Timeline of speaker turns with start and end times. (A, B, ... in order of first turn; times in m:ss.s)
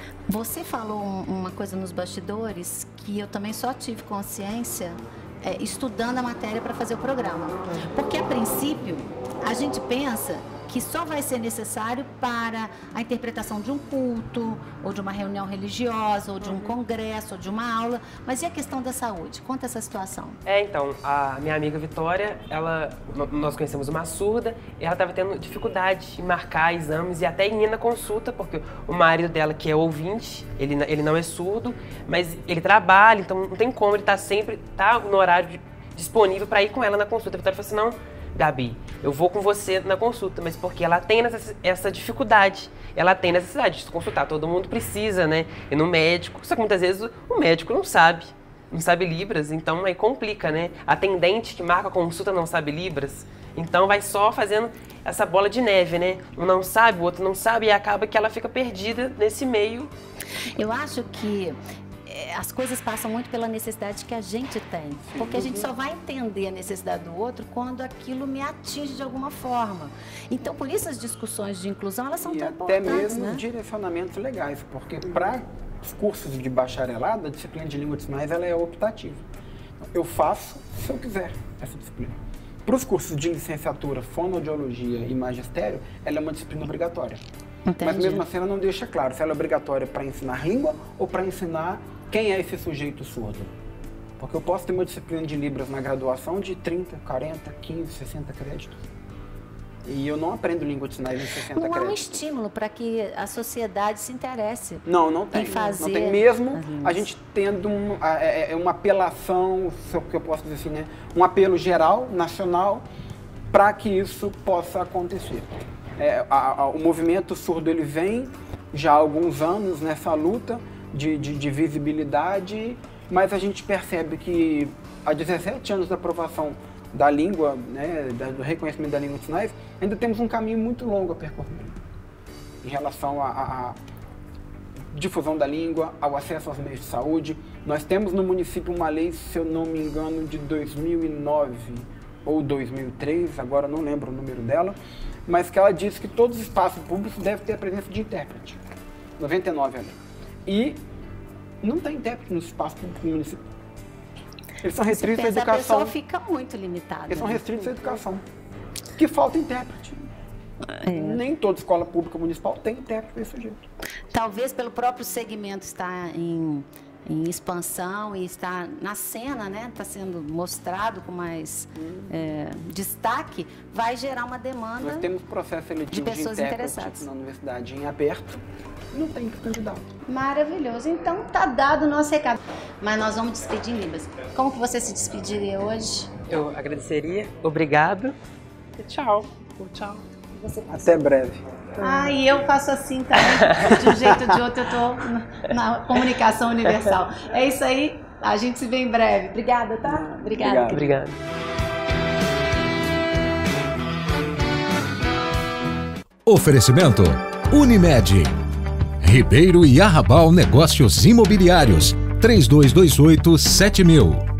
0:00.3-0:20.4 A
0:20.4-0:59.9 B
1:00.6-1:13.4 A
1:05.0-1:05.7 C
1:12.2-1:19.2 C
1:19.9-1:27.2 C
1:27.6-1:28.2 A
1:27.8-1:33.5 C
1:34.2-1:38.8 C
1:39.8-1:42.2 C
1:41.5-1:47.0 A
1:44.8-1:52.8 C
1:53.5-2:11.8 C
2:12.6-2:13.8 C
2:14.9-2:28.6 C
2:29.2-2:30.8 C
2:31.6-2:33.4 C
2:34.6-2:36.0 C
2:34.9-2:37.7 A
2:37.1-2:38.2 C
2:39.0-2:40.0 C
2:40.8-2:41.2 A
2:40.9-2:43.6 C
2:44.1-2:55.1 A
2:51.7-2:52.3 C
2:54.8-2:59.8 C
2:55.9-2:57.1 A
3:00.0-3:06.1 A
3:06.3-3:08.2 B
3:08.8-3:10.6 B
3:10.7-3:11.4 C
3:11.8-3:12.2 B
3:11.8-3:20.9 A
3:13.1-3:13.9 B
3:13.9-3:14.4 C
3:16.7-3:16.9 B
3:19.8-3:20.8 C
3:20.7-3:21.2 B
3:26.2-3:28.3 D
3:29.0-3:34.2 D